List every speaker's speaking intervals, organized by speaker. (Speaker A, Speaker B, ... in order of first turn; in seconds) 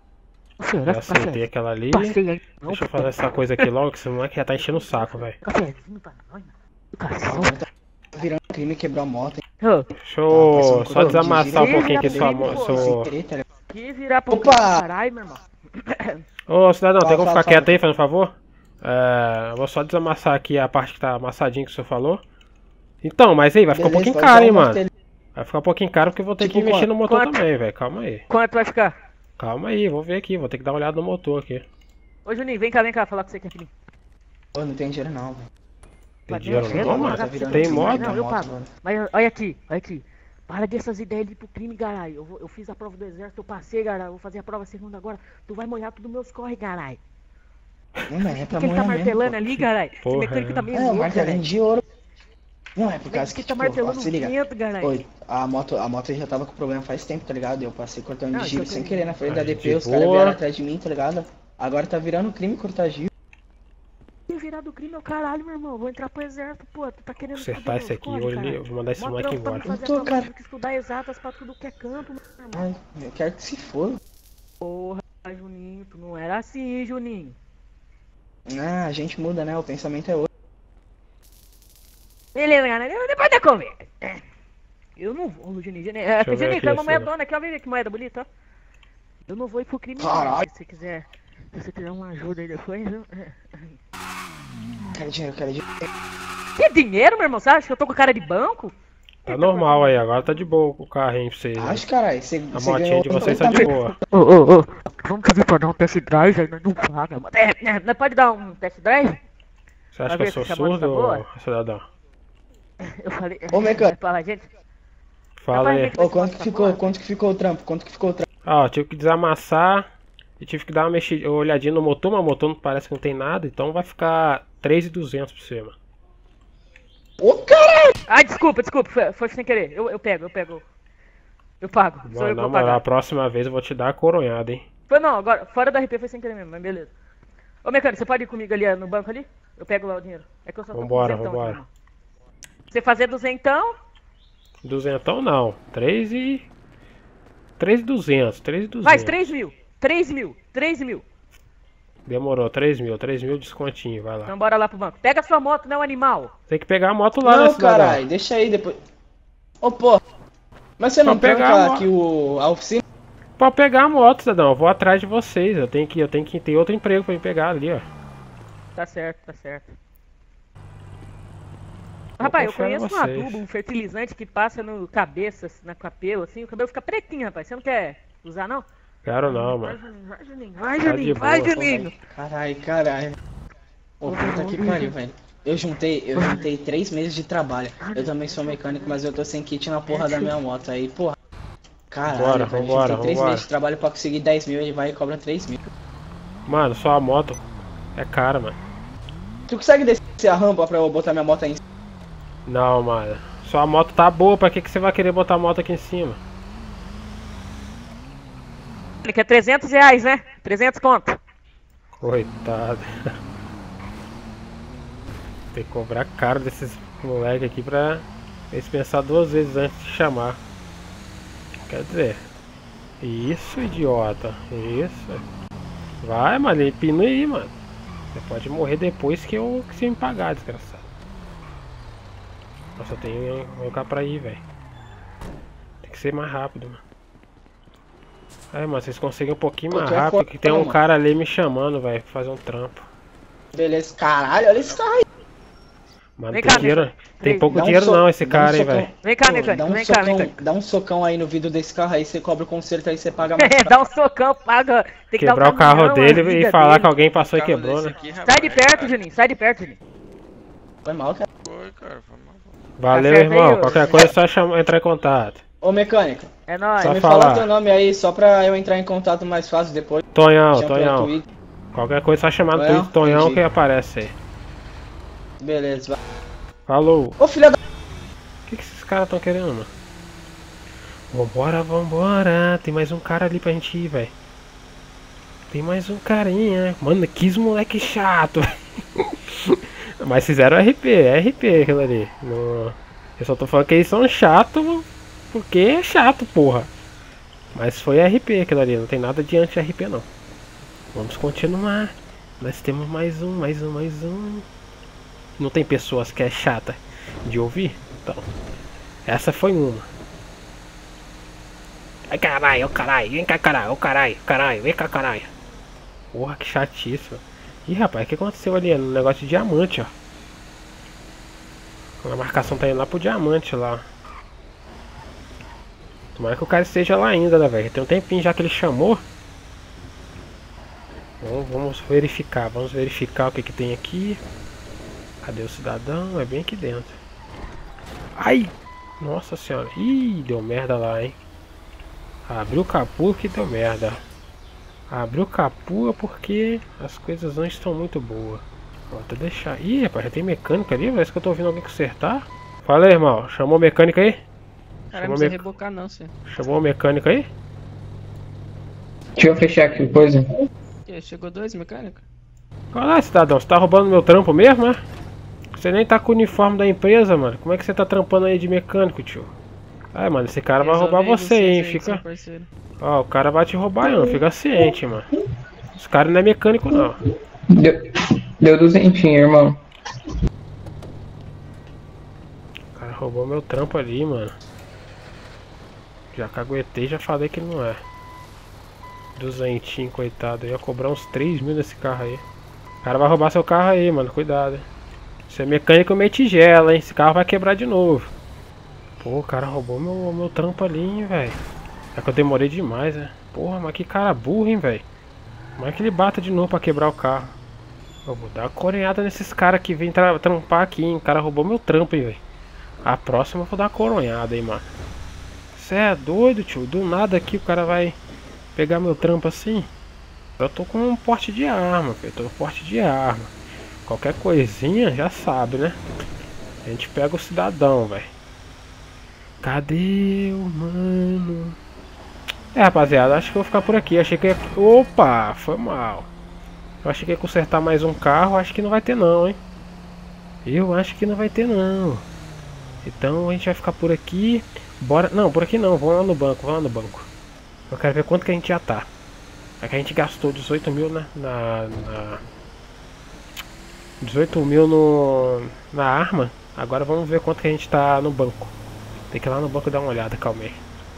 Speaker A: 0.6-1.4, 1.9-3.7, 4.6-7.6, 9.6-9.9, 11.5-12.9, 13.7-16.2, 27.0-27.4, 28.3-28.9, 32.2-33.7, 36.3-47.0, 48.2-51.4, 53.1-54.9, 58.3-59.1, 64.3-72.6, 74.6-77.3, 82.3-84.2, 85.0-88.2, 89.2-93.7, 96.6-98.7, 99.2-100.1, 103.1-109.2, 110.1-111.2, 112.8-114.5, 115.5-116.9, 128.1-130.6, 131.6-132.8, 134.9-136.9, 137.6-141.7, 142.7-143.8, 148.8-151.0, 154.2-156.3, 168.8-169.7, 172.2-178.6, 179.2-181.9, 184.1-184.9, 186.1-186.4, 187.8-189.0, 189.9-190.3, 209.0-211.2, 246.3-247.5, 249.0-250.4, 253.4-256.9, 258.2-259.8, 262.9-264.0, 266.5-267.0
Speaker B: 0.8-5.4, 9.9-13.1, 16.5-22.2, 23.0-24.8, 25.3-28.2, 29.4-31.6, 36.3-38.2, 49.4-50.7, 59.2-60.4, 67.2-69.7, 86.2-87.1, 99.2-101.8, 102.5-104.0, 109.9-111.9, 115.4-115.9, 118.4-125.7, 132.0-134.6, 140.7-141.6, 144.6-146.4, 147.6-149.3, 152.1-154.3, 156.5-158.0, 161.0-161.9, 163.4-167.9, 172.2-173.4, 179.0-179.8, 180.8-181.6, 192.1-193.5, 196.4-197.4, 197.9-198.6, 202.4-206.2, 212.0-213.1, 215.5-220.4, 221.7-222.2, 223.0-225.2, 226.0-227.5, 228.1-230.9, 232.8-234.4, 235.8-236.8, 238.5-242.8, 246.2-248.9, 255.1-258.0, 262.8-265.4, 266.8-267.5, 270.1-271.1, 271.7-274.1, 276.7-277.2, 278.4-279.7, 281.1-284.1, 285.5-296.7, 297.5-300.1, 300.9-304.4, 305.4-308.3, 309.0-309.9, 312.1-315.3, 316.1-319.9, 322.0-323.8, 326.1-329.0, 331.2-334.2, 335.2-337.0, 338.1-341.2, 342.2-344.0, 344.9-354.2, 354.9-355.4, 356.2-357.3, 362.7-364.8, 365.5-369.3, 369.9-372.0, 372.8-375.1, 375.8-377.0, 382.7-384.3, 386.1-387.8, 389.1-392.2, 392.8-394.6, 395.3-398.1, 399.0-401.4, 401.9-404.8, 405.6-407.4, 408.0-412.2, 412.8-414.7, 415.5-418.0, 418.6-419.7, 420.4-423.3, 423.9-425.8, 426.6-428.1, 429.4-431.6, 432.5-436.1, 436.8-439.4, 440.4-442.0, 442.8-447.1, 447.7-448.9, 449.6-452.2, 454.0-458.5, 459.1-460.6
Speaker C: 7.3-9.4, 10.3-13.4, 14.3-14.8, 17.0-17.8, 23.7-24.9, 26.4-26.9, 34.5-35.5, 36.5-38.7, 48.1-49.3, 50.7-51.8, 52.8-63.1, 69.6-70.3, 72.5-74.0, 78.5-80.3, 90.0-90.5, 94.9-95.9, 101.6-103.9, 113.5-113.9, 116.0-118.3, 127.2-127.9, 157.2-158.8, 159.6-160.0, 160.8-162.8, 181.5-183.2, 184.0-191.2, 191.9-195.6, 199.5-201.6, 239.7-240.7, 243.5-245.0, 247.5-253.7, 260.8-261.2, 265.6-271.2, 272.5-273.4, 275.4-276.0, 277.2-277.6
Speaker D: 257.0-259.0, 261.4-262.6, 354.9-356.1, 360.9-362.0, 370.6-372.5
Speaker E: 359.2-360.3, 373.8-374.8, 376.7-377.0, 377.5-377.8, 378.4-379.6